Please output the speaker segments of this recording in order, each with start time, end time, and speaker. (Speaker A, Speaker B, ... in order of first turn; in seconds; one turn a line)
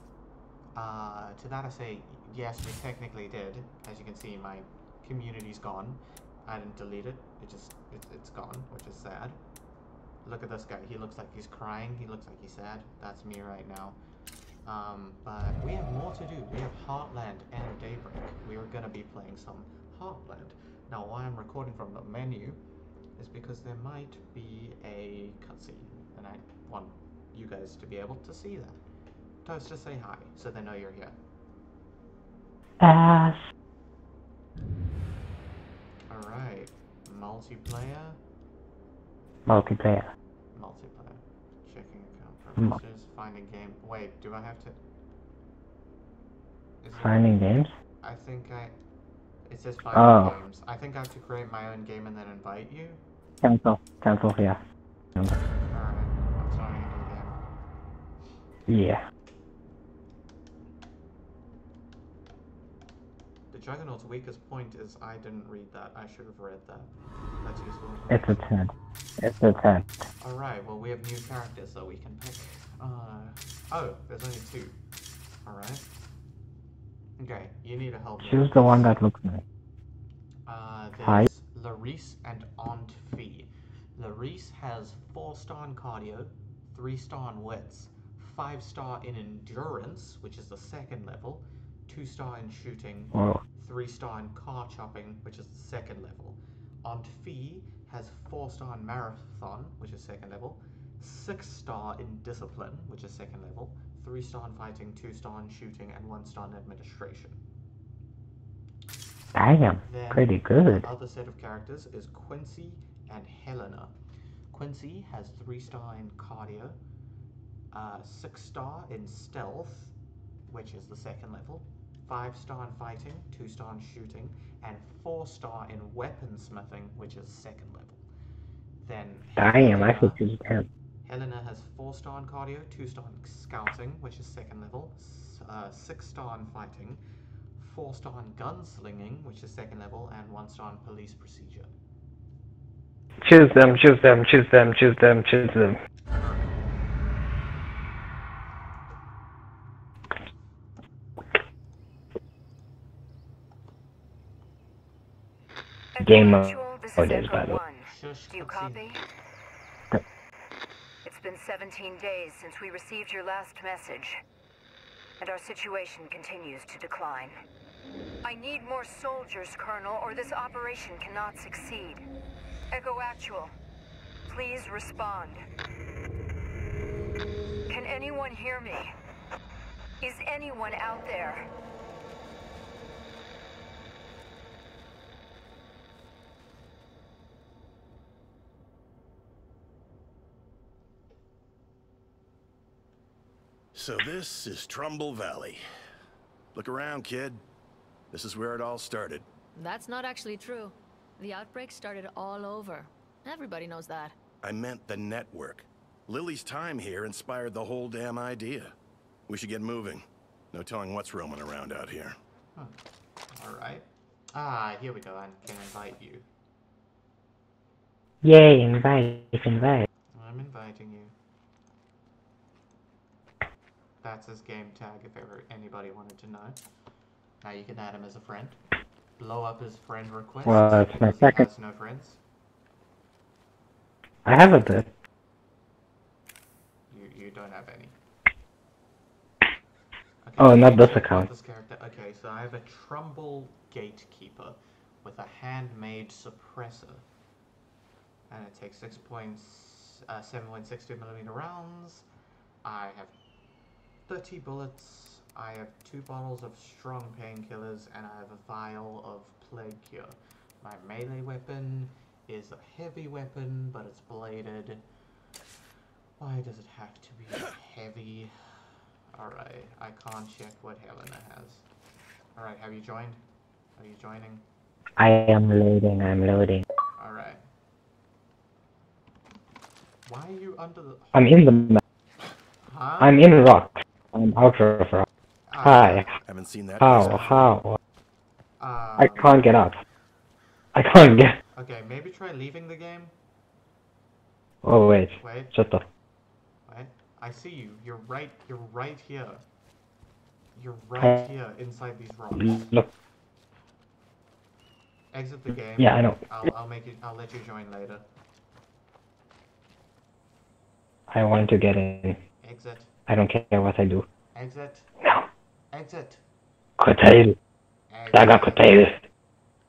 Speaker A: 0.7-9.4
Speaker A: 10.2-14.0
Speaker A: 14.6-22.6
Speaker A: 23.2-28.8
Speaker A: 29.4-31.2
Speaker B: 32.8-33.4
Speaker A: 36.1-38.2
Speaker B: 39.5-40.1
Speaker A: 40.5-44.8
Speaker A: 46.8-47.4
Speaker B: 47.0-47.7
Speaker A: 48.0-48.8
Speaker A: 49.5-53.0
Speaker B: 49.9-50.3
Speaker B: 53.4-54.6
Speaker A: 55.7-57.4
Speaker B: 58.7-59.0
Speaker A: 63.5-68.4
Speaker B: 68.1-69.9
Speaker A: 70.2-74.8
Speaker A: 75.4-75.8
Speaker A: 77.2-78.9
Speaker B: 78.2-79.4
Speaker A: 80.5-107.4
Speaker B: 81.0-81.3
Speaker B: 93.1-93.4
Speaker B: 109.3-110.9
Speaker A: 109.8-113.9
Speaker A: 114.5-116.8
Speaker A: 117.7-119.9
Speaker A: 120.5-128.0
Speaker A: 128.8-130.2
Speaker B: 129.4-130.7
Speaker A: 131.0-137.0
Speaker A: 137.6-141.7
Speaker B: 143.2-145.8
Speaker A: 146.1-146.5
Speaker C: 155.9-159.0
Speaker B: 156.0-157.6
Speaker A: 157.8-158.8
Speaker C: 161.0-164.2
Speaker C: 165.2-167.3
Speaker C: 168.2-172.0
Speaker C: 172.7-173.5
Speaker C: 174.3-175.4
Speaker C: 177.7-178.9
Speaker C: 180.0-181.5
Speaker D: 193.7-195.6
Speaker D: 196.5-197.4
Speaker D: 198.1-199.3
Speaker E: 199.6-204.2
Speaker D: 204.4-208.7
Speaker D: 209.3-212.2
Speaker A: 213.3-216.3
Speaker B: 218.2-219.8
Speaker A: 220.1-221.1
Speaker A: 224.0-226.6
Speaker A: 227.4-228.6
Speaker A: 229.2-232.2
Speaker B: 230.4-231.5
Speaker B: 234.2-234.9
Speaker A: 236.9-237.9
Speaker A: 240.2-247.1
Speaker B: 240.4-241.3
Speaker A: 248.3-252.1
Speaker A: 252.6-253.2
Speaker A: 254.1-264.8
Speaker A: 266.2-268.3
Speaker A: 269.1-271.6
Speaker A: 272.4-273.2
Speaker A: 273.8-274.4
Speaker B: 275.0-276.6
Speaker A: 277.0-277.4
Speaker A: 280.1-281.4
Speaker B: 281.1-281.8
Speaker A: 282.6-283.2
Speaker B: 283.0-285.1
Speaker A: 285.5-286.1
Speaker B: 285.6-286.1
Speaker D: 286.2-287.5
Speaker B: 286.8-287.8
Speaker A: 286.9-287.5
Speaker A: 288.6-289.4
Speaker B: 289.0-289.8
Speaker B: 290.7-291.4
Speaker A: 291.6-293.1
Speaker B: 294.6-295.9
Speaker A: 295.2-295.6
Speaker A: 296.7-299.4
Speaker A: 300.6-302.7
Speaker B: 302.3-302.9
Speaker A: 305.1-308.1
Speaker B: 305.8-306.2
Speaker B: 311.1-312.2
Speaker A: 312.4-312.9
Speaker B: 313.1-314.1
Speaker A: 314.3-314.9
Speaker B: 315.0-315.3
Speaker A: 315.7-316.2
Speaker B: 316.8-317.4
Speaker A: 317.9-318.9
Speaker B: 318.1-319.0